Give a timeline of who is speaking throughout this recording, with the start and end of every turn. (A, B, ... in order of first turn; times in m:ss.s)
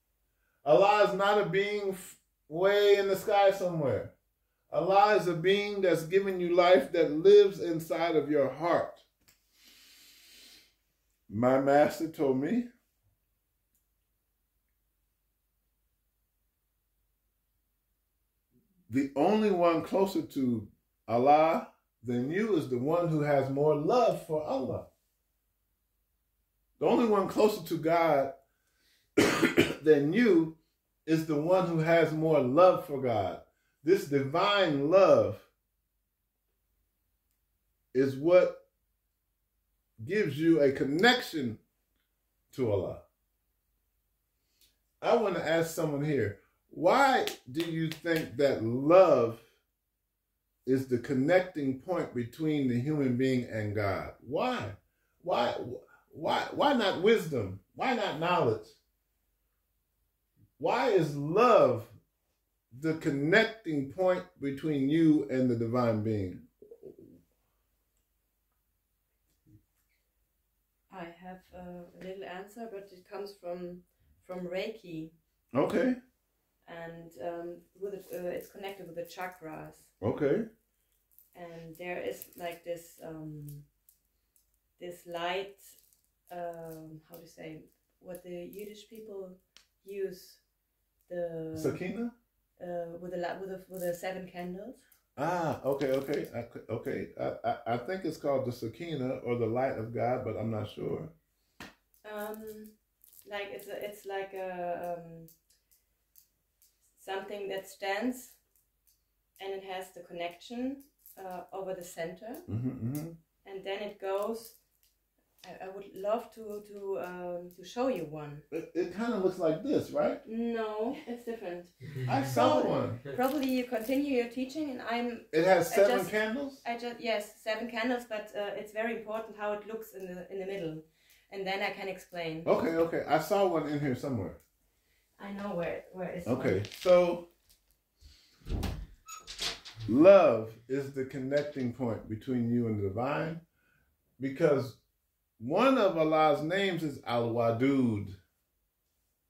0:00.6-0:04.1 A
0:04.7-0:09.0 A
0:11.3-0:12.7 A
0:18.9-0:24.9 A
0:26.8-0:28.3 A
0:29.2-0:35.5 A
0:37.9-0:38.6 A
0:40.0-0:41.6 A
0:42.5-0:43.0 A
0:45.0-0:49.4 A
0:50.7-0:58.8 A
1:00.6-1:01.9 A
1:02.7-1:07.1 A
1:10.9-1:15.1 B
1:15.5-1:16.0 A
1:16.7-1:19.9 B
1:20.0-1:20.5 A
1:21.3-1:23.6 B
1:24.8-1:25.8 B
1:26.3-1:30.4 B
1:31.1-1:31.8 B
1:31.5-1:32.1 A
1:32.6-1:34.8 B
1:35.2-1:41.1 A
1:42.0-1:42.7 B
1:43.2-1:45.3 B
1:47.0-1:48.4 B
1:49.4-1:52.5 B
1:52.5-1:53.2 A
1:53.4-1:54.6 B
1:55.4-1:58.4 B
1:58.5-2:00.2 A
2:00.2-2:12.5 B
2:02.1-2:03.0 A
2:05.3-2:06.6 A
2:12.4-2:14.4 A
2:15.2-2:16.7 B
2:16.3-2:17.3 A
2:19.9-2:23.4 A
2:24.2-2:24.8 A
2:25.4-2:28.2 A